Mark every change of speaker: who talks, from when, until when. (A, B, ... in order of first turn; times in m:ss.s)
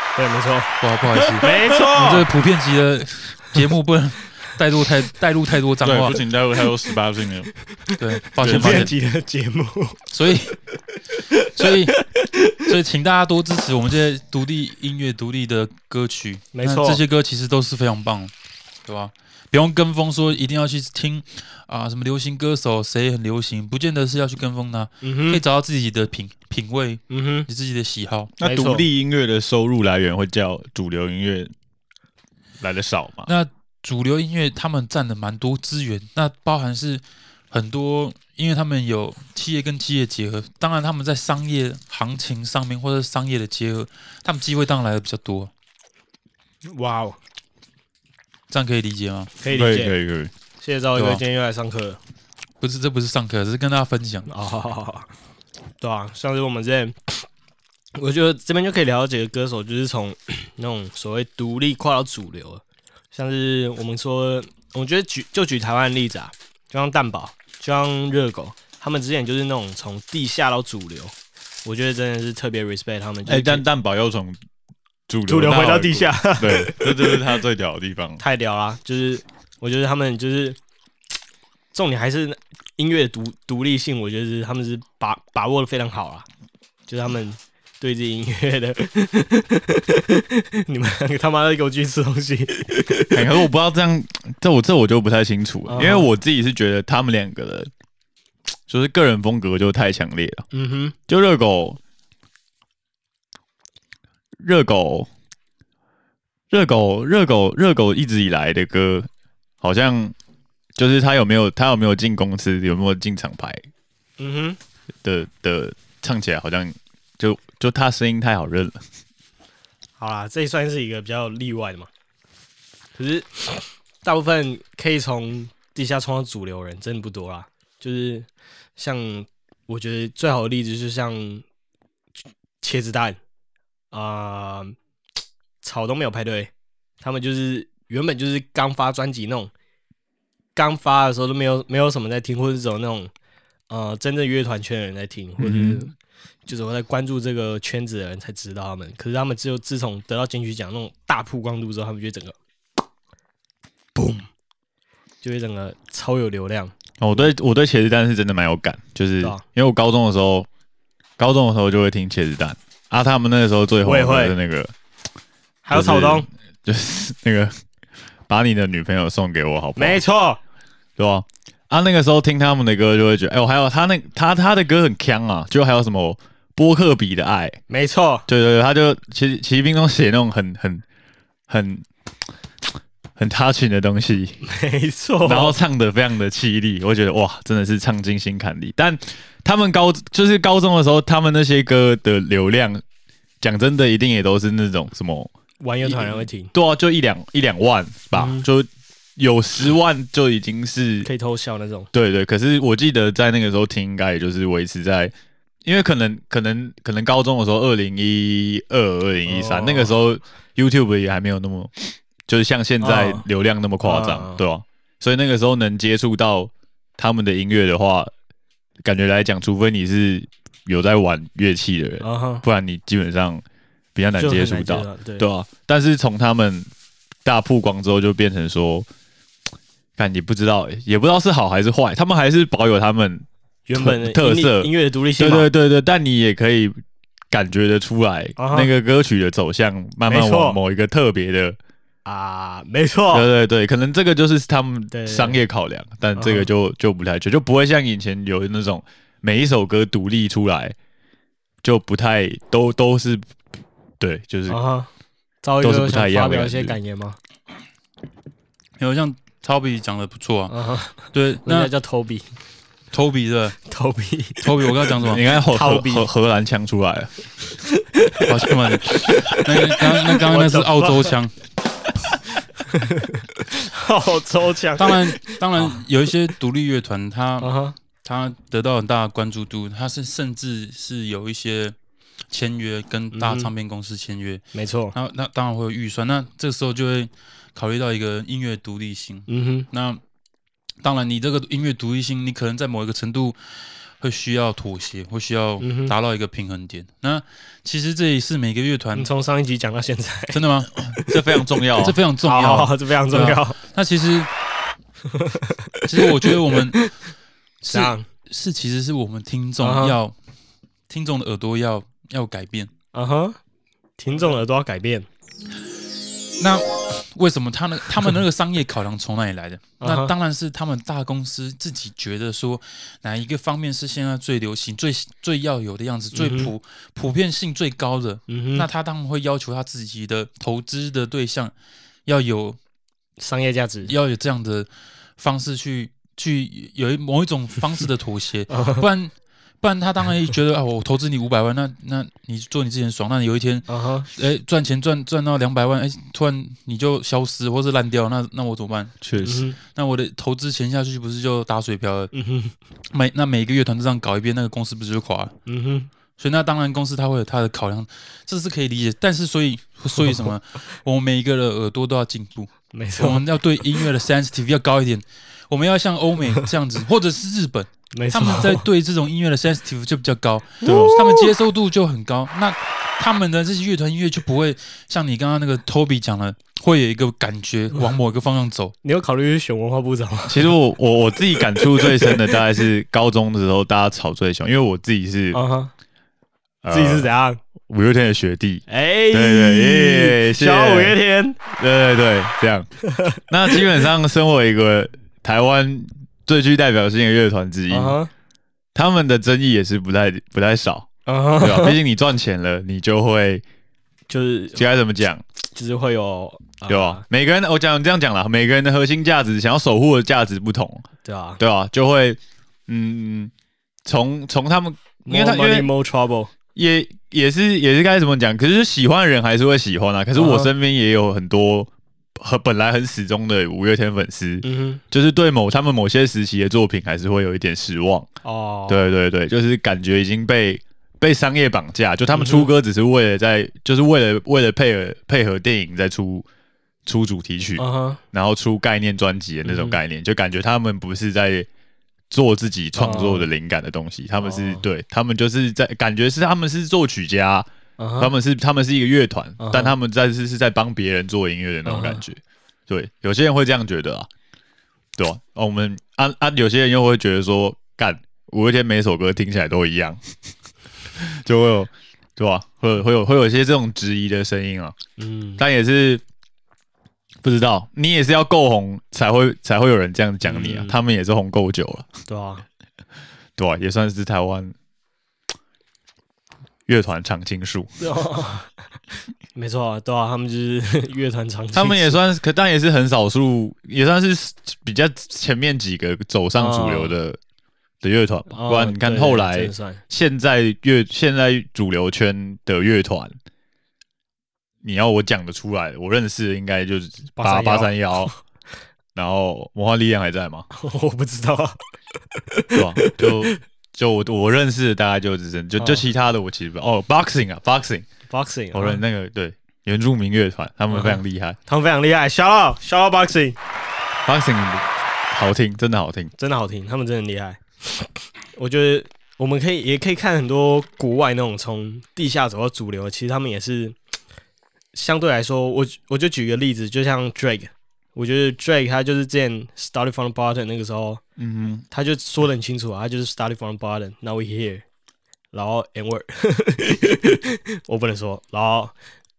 0:00.2-0:00.7 A
0:00.8-0:06.2 B
0:01.4-0:02.3 A
0:05.8-0:07.5 C
0:07.9-0:10.0 A
0:08.0-0:08.9 B
0:08.4-0:08.9 C
0:10.1-0:10.6 B
0:11.3-0:12.5 A
0:11.5-0:12.0 B
0:12.6-0:18.3 B
0:16.5-0:17.0 A
0:18.8-0:28.3 B
0:25.0-0:25.4 A
0:27.1-0:27.5 A
0:28.4-0:31.5 C
0:28.4-0:28.8 A
0:32.6-0:33.3 C
0:33.3-0:45.5 B
0:46.6-0:47.2 A
0:48.5-0:49.3 B
0:49.4-0:50.0 A
0:49.5-0:50.3 C
0:50.6-0:52.0 A
0:52.6-0:54.3 B
0:54.3-0:55.1 A
0:55.8-0:57.3 A
0:57.9-1:11.1 A
1:11.6-1:13.6 A
1:13.2-1:14.4 C
1:15.1-1:18.2 C
1:15.3-1:17.3 A
1:18.2-1:20.6 A
1:21.7-1:26.2 A
1:26.9-1:33.2 A
1:33.1-1:37.7 C
1:35.7-1:36.1 A
1:38.7-1:40.4 C
1:40.5-1:40.9 A
1:41.1-1:41.8 C
1:44.4-1:45.1 C
1:46.5-1:49.1 C
1:49.6-1:50.1 C
1:50.8-1:53.6 C
1:54.2-1:54.6 A
1:55.0-1:58.8 C
2:00.0-2:01.9 A
2:03.0-2:11.4 A
2:12.6-2:13.2 A
2:13.9-2:14.8 A
2:15.6-2:19.5 A
2:20.5-2:23.1 A
2:23.7-2:25.9 A
2:25.4-2:25.8 C
2:26.4-2:32.4 A
2:34.0-2:34.3 A
2:35.2-2:36.7 A
2:37.0-2:40.5 C
2:41.2-2:44.7 C
2:43.8-2:44.4 A
2:45.6-2:46.3 A
2:45.7-2:47.6 C
2:48.3-2:50.0 C
2:49.8-2:50.4 A
2:51.0-2:57.6 C
2:57.7-2:58.2 A
2:58.3-3:00.8 C
3:01.5-3:01.8 C
3:03.2-3:04.4 C
3:04.4-3:05.6 A
3:05.2-3:12.8 C
3:13.4-3:15.3 C
3:15.6-3:16.5 A
3:15.8-3:21.1 C
3:18.1-3:18.4 A
3:21.0-3:21.9 A
3:21.9-3:25.1 C
3:25.6-3:38.1 C
3:29.3-3:29.9 A
3:32.8-3:33.2 A
3:33.8-3:34.4 A
3:38.8-3:43.4 C
3:42.0-3:42.4 A
3:43.9-3:46.7 C
3:44.2-3:45.3 A
3:47.2-3:48.9 C
3:50.0-3:56.8 C
3:53.7-3:55.5 A
3:57.3-4:01.6 C
3:58.4-3:58.7 A
4:00.0-4:00.6 A
4:02.0-4:03.3 A
4:03.1-4:10.8 C
4:04.9-4:05.4 A
4:06.2-4:06.5 A
4:11.6-4:13.2 C
4:14.0-4:14.6 C
4:14.5-4:14.9 A
4:15.4-4:17.2 A
4:15.6-4:16.8 C
4:18.8-4:21.7 B
4:20.5-4:22.2 A
4:22.9-4:23.6 B
4:23.6-4:24.6 A
4:24.4-4:25.2 B
4:25.0-4:27.2 C
4:25.5-4:26.1 A
4:27.7-4:28.3 A
4:28.2-4:31.3 B
4:28.9-4:31.2 A
4:32.7-4:35.8 A
4:34.8-4:41.7 B
4:37.4-4:37.8 A
4:42.3-4:50.0 B
4:43.1-4:43.5 A
4:44.5-4:44.9 A
4:49.3-4:49.7 A
4:50.8-4:53.4 B
4:54.0-4:59.1 B
4:55.6-4:55.9 A
4:58.9-5:00.4 A
5:00.3-5:00.7 B
5:00.9-5:02.0 C
5:01.8-5:04.3 B
5:02.2-5:03.6 A
5:05.1-5:06.9 A
5:05.8-5:06.9 B
5:07.6-5:10.1 B
5:07.7-5:08.0 A
5:09.6-5:10.0 A
5:10.9-5:12.7 B
5:12.9-5:13.4 A
5:14.0-5:15.1 A
5:16.4-5:31.5 B
5:19.8-5:20.1 A
5:26.1-5:26.5 A
5:28.3-5:28.7 A
5:32.0-5:32.6 B
5:33.2-5:33.9 A
5:33.9-5:49.0 B
5:38.5-5:38.8 A
5:43.7-5:44.1 A
5:49.0-5:49.4 C
5:49.2-5:49.6 A
5:49.6-5:52.1 B
5:52.1-5:52.5 A
5:52.9-5:55.3 B
5:55.4-5:55.9 A
5:56.2-6:18.7 B
6:02.7-6:03.2 A
6:07.9-6:08.6 A
6:10.6-6:11.3 A
6:10.6-6:11.0 C
6:18.8-6:20.5 A
6:20.3-6:25.4 C
6:21.7-6:22.3 A
6:25.3-6:25.7 A
6:26.6-6:27.1 C
6:26.7-6:27.4 A
6:27.7-6:32.7 C
6:28.7-6:31.4 A
6:32.9-6:33.6 A
6:33.3-6:38.0 C
6:37.7-6:38.1 A
6:38.7-6:43.4 C
6:41.0-6:41.8 A
6:44.1-6:44.6 A
6:44.5-6:45.2 C
6:45.5-6:47.0 A
6:46.7-6:50.9 C
6:51.0-6:51.4 A
6:51.4-6:53.3 C
6:53.8-6:55.7 C
6:55.0-6:56.3 A
6:56.5-7:08.1 C
7:00.1-7:00.5 A
7:04.4-7:04.8 A
7:08.2-7:08.9 A
7:08.7-7:16.2 C
7:12.1-7:12.5 A
7:16.8-7:21.5 C
7:17.6-7:18.0 A
7:19.4-7:19.8 A
7:22.1-7:27.5 C
7:22.8-7:23.3 A
7:24.2-7:24.6 A
7:27.8-7:28.1 A
7:28.0-7:34.1 C
7:29.4-7:29.7 A
7:31.6-7:32.0 A
7:35.0-7:40.0 C
7:41.0-7:44.8 C
7:45.0-7:45.4 A
7:45.4-7:46.0 C
7:47.2-7:51.9 C
7:50.2-7:50.8 A
7:52.1-7:52.4 A
7:53.4-7:54.5 C
7:56.7-7:57.8 C
7:57.8-7:58.5 A
7:59.3-8:02.0 A
8:01.5-8:07.2 C
8:06.4-8:06.9 A
8:07.8-8:13.2 C
8:08.3-8:09.8 A
8:14.6-8:18.1 C
8:17.2-8:18.2 A
8:18.9-8:20.5 C
8:20.5-8:21.6 A
8:22.3-8:23.4 A
8:22.5-8:27.8 C
8:28.1-8:28.8 A
8:28.5-8:31.4 C
8:30.7-8:33.4 A
8:34.0-8:36.1 C
8:36.2-8:43.8 A
8:44.7-8:51.0 A
8:51.2-8:51.6 C
8:51.7-8:54.6 A
8:55.3-8:58.7 A